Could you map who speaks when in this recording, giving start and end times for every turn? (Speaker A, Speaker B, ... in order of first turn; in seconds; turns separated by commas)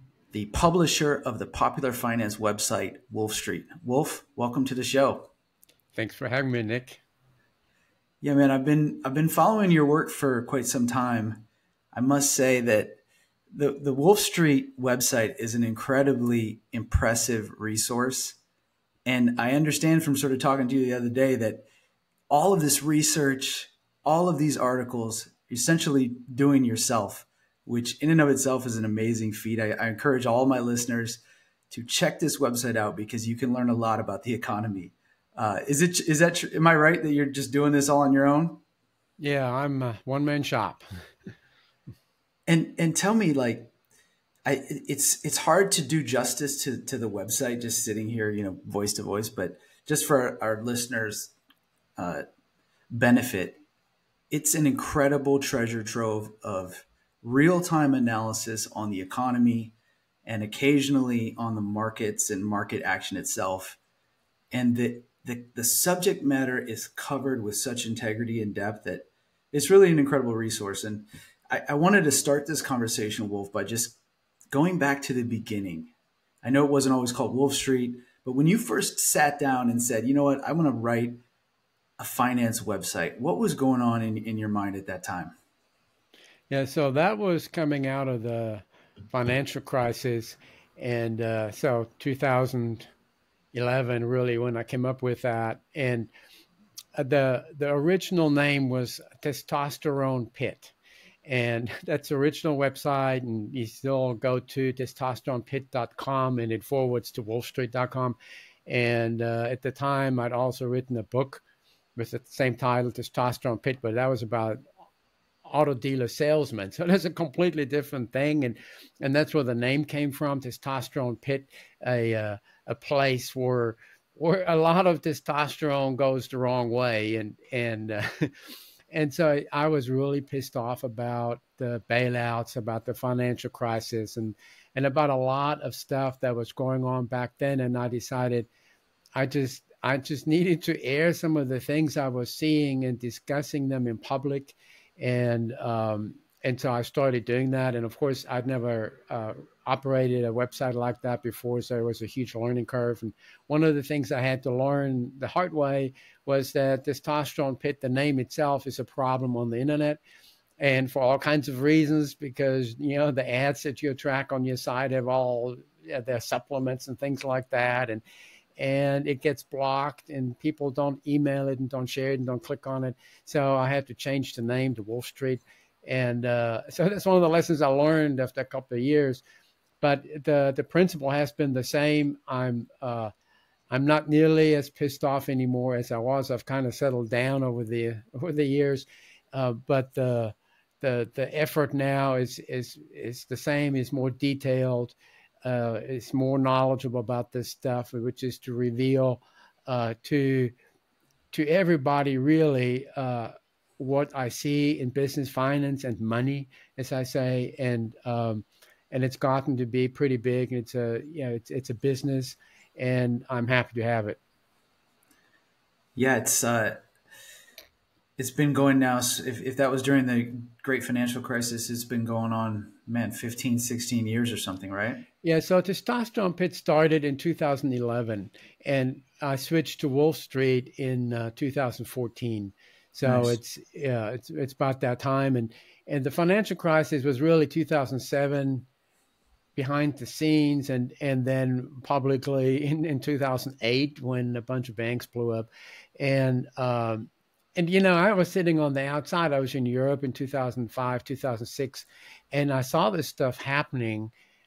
Speaker A: 0.3-5.3, Speaker B: 5.9-7.0, Speaker A: 8.2-13.0, Speaker A: 13.5-18.4, Speaker A: 19.0-21.6, Speaker A: 22.3-38.6, Speaker B: 39.2-40.8, Speaker A: 42.5-43.7, Speaker A: 44.5-51.3, Speaker A: 52.0-52.2, Speaker A: 52.9-53.6, Speaker A: 54.3-63.8, Speaker A: 64.5-74.0, Speaker A: 74.5-75.9, Speaker A: 76.4-81.2, Speaker A: 82.0-85.3, Speaker B: 86.5-92.9, Speaker B: 93.5-96.1, Speaker B: 97.0-100.7, Speaker B: 101.2-111.4, Speaker B: 112.0-114.6, Speaker B: 115.4-138.5, Speaker B: 139.2-160.0, Speaker B: 160.6-168.0, Speaker B: 168.6-179.2, Speaker B: 179.8-183.1, Speaker B: 183.7-200.5, Speaker B: 201.3-214.2, Speaker A: 215.9-216.8, Speaker A: 218.2-225.1, Speaker B: 225.2-238.7, Speaker A: 233.0-233.4, Speaker B: 239.6-254.1